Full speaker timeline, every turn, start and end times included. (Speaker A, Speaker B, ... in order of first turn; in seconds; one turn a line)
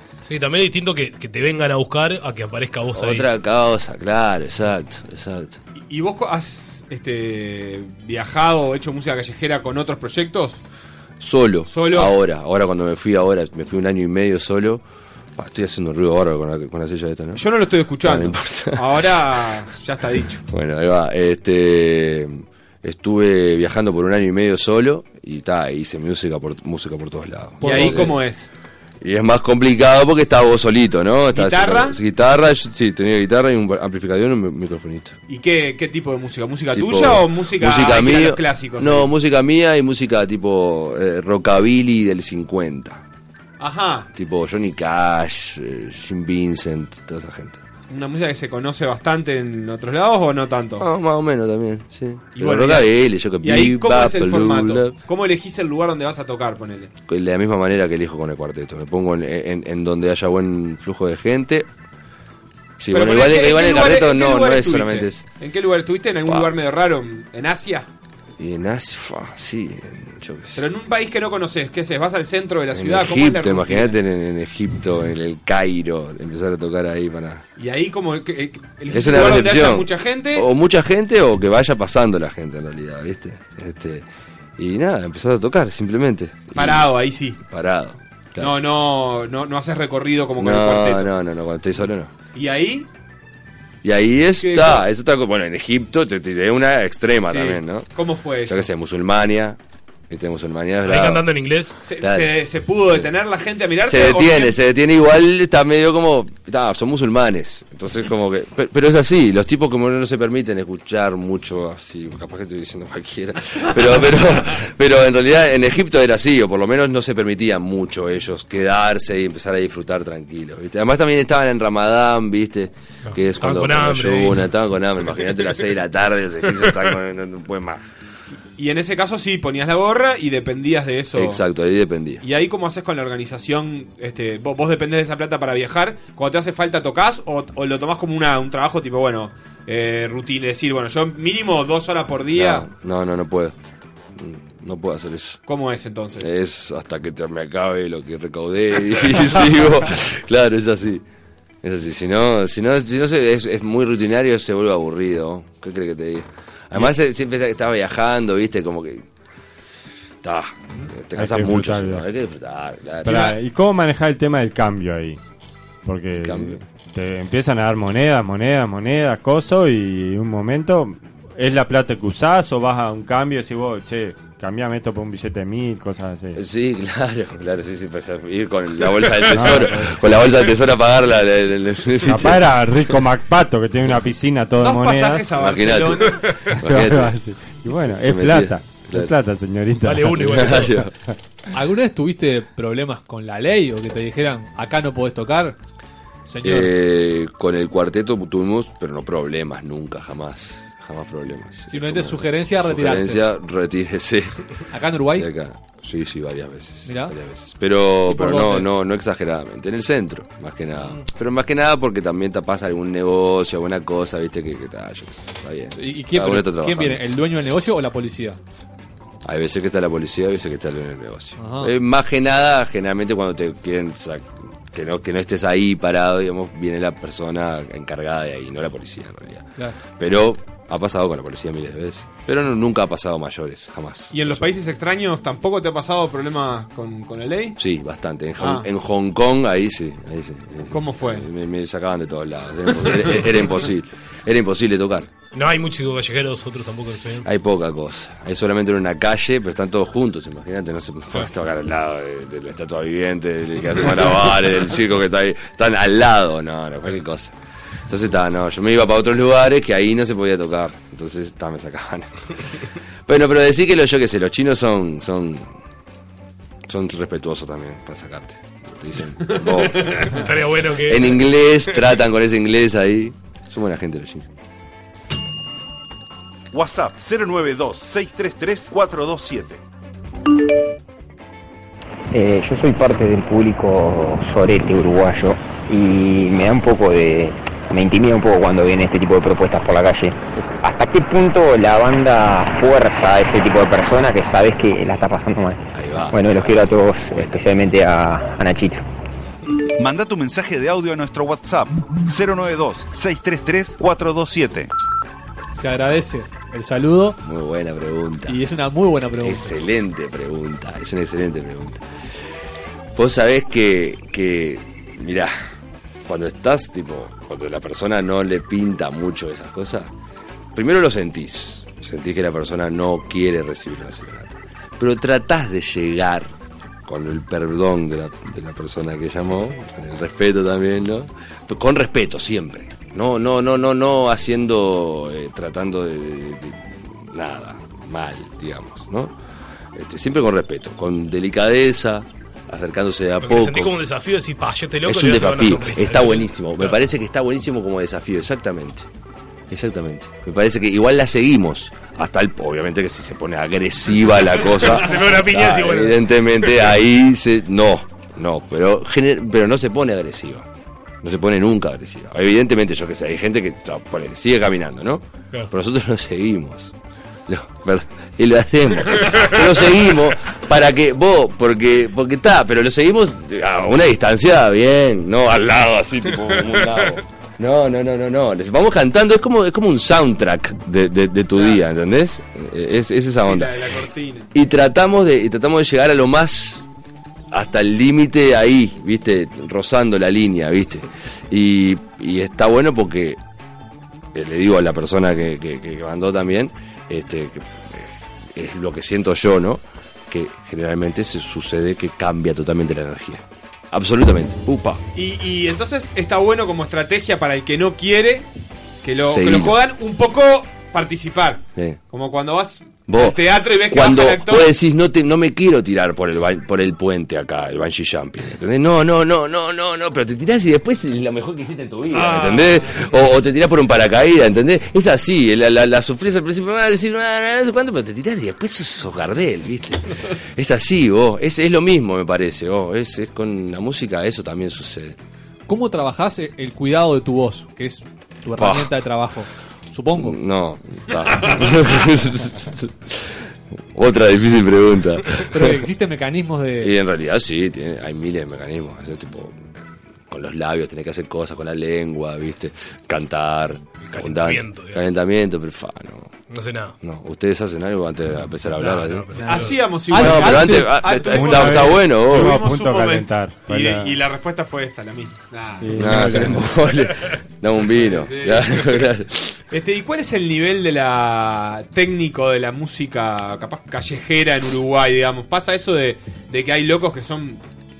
Speaker A: 0.2-3.3
Speaker B: 2.9-5.6
Speaker C: 5.9-10.6
Speaker B: 11.2-14.8
Speaker C: 11.7-12.2
Speaker B: 15.3-17.4
Speaker C: 17.3-20.4
Speaker B: 18.0-19.6
Speaker B: 20.5-28.2
Speaker D: 27.6-28.1
Speaker C: 27.6-28.5
Speaker B: 29.0-35.2
Speaker C: 31.3-32.0
Speaker C: 35.3-39.1
Speaker B: 36.7-43.0
Speaker C: 43.6-44.1
Speaker B: 44.1-47.6
Speaker C: 47.9-50.9
Speaker B: 50.8-55.0
Speaker C: 52.3-56.9
Speaker B: 57.1-61.7
Speaker B: 62.8-65.2
Speaker C: 62.9-67.9
Speaker B: 66.2-66.5
Speaker B: 68.4-70.7
Speaker C: 70.5-74.0
Speaker B: 72.7-77.4
Speaker C: 77.6-80.5
Speaker B: 78.9-84.0
Speaker B: 84.6-86.9
Speaker C: 86.5-87.4
Speaker B: 87.4-88.6
Speaker C: 88.4-91.1
Speaker B: 90.4-92.1
Speaker C: 92.3-92.9
Speaker B: 93.8-97.9
Speaker C: 94.4-94.8
Speaker C: 97.3-98.7
Speaker B: 98.5-99.6
Speaker B: 100.1-101.3
Speaker A: 100.8-101.8
Speaker C: 101.8-104.6
Speaker B: 102.0-102.4
Speaker B: 103.8-127.8
Speaker A: 123.1-124.5
Speaker A: 126.7-126.9
Speaker C: 128.6-131.4
Speaker B: 131.1-132.2
Speaker C: 132.2-142.7
Speaker B: 142.3-143.6
Speaker B: 144.2-145.4
Speaker C: 145.4-146.3
Speaker B: 146.2-151.0
Speaker B: 151.6-159.0
Speaker B: 160.2-163.4
Speaker E: 161.1-162.1
Speaker E: 163.0-165.2
Speaker E: 165.8-176.4
Speaker B: 166.2-166.6
Speaker B: 176.3-182.5
Speaker E: 179.2-180.0
Speaker E: 182.0-185.4
Speaker C: 184.6-186.3
Speaker B: 185.3-187.2
Speaker E: 186.5-190.7
Speaker B: 187.7-189.1
Speaker A: 189.8-190.9
Speaker B: 190.2-190.9
Speaker D: 191.5-195.6
Speaker D: 196.3-196.7
Speaker B: 196.4-204.6
Speaker D: 201.7-203.2
Speaker D: 204.7-205.3
Speaker B: 205.1-217.0
Speaker D: 206.8-207.1
Speaker D: 208.0-208.7
Speaker D: 215.8-218.4
Speaker B: 219.2-234.5
Speaker D: 221.4-221.7
Speaker C: 234.1-237.6
Speaker B: 237.6-245.1
Speaker C: 238.4-238.7
Speaker C: 240.7-241.3
Speaker A: 245.3-247.3
Speaker B: 247.2-257.3
Speaker B: 257.9-262.1
Speaker B: 263.1-265.5
Speaker B: 266.7-270.1
Speaker A: 269.8-271.8
Speaker B: 270.9-274.3
Speaker F: 276.5-279.6
Speaker G: 282.1-298.8
Speaker B: 295.7-297.4
Speaker F: 299.8-304.7
Speaker D: 305.5-307.2
Speaker B: 307.2-308.4
Speaker D: 308.3-309.6
Speaker B: 309.2-311.8
Speaker B: 312.9-315.5
Speaker B: 316.1-319.9
Speaker B: 320.5-326.3
Speaker B: 326.9-339.1
Speaker B: 339.7-343.8
Speaker A: 343.2-346.8
Speaker B: 344.8-348.9
Speaker B: 349.5-360.5
Speaker A: 354.2-356.7
Speaker B: 361.0-366.7
Speaker B: 367.3-383.6
Speaker C: 381.3-381.6
Speaker C: 383.2-384.3
Speaker B: 384.3-386.6
Speaker B: 387.3-393.2
Speaker B: 394.1-404.8
Speaker C: 404.9-408.3
Speaker C: 408.8-414.5
Speaker B: 409.0-409.6
Speaker B: 411.5-411.8
Speaker B: 412.9-435.0
Speaker C: 421.9-423.0
Speaker D: 435.5-440.2
Speaker B: 438.4-438.7
Speaker B: 439.9-445.6
Speaker D: 445.2-446.7
Speaker B: 446.6-449.6
Speaker B: 450.1-456.2
Speaker A: 453.8-454.9
Speaker A: 456.3-456.8
Speaker B: 456.8-462.4
Speaker A: 458.5-459.6
Speaker C: 459.1-466.4
Speaker D: 459.9-461.1
Speaker E: 461.1-464.0
Speaker E: 465.6-466.5
Speaker B: 465.7-469.4
Speaker C: 467.6-468.9
Speaker C: 469.5-477.4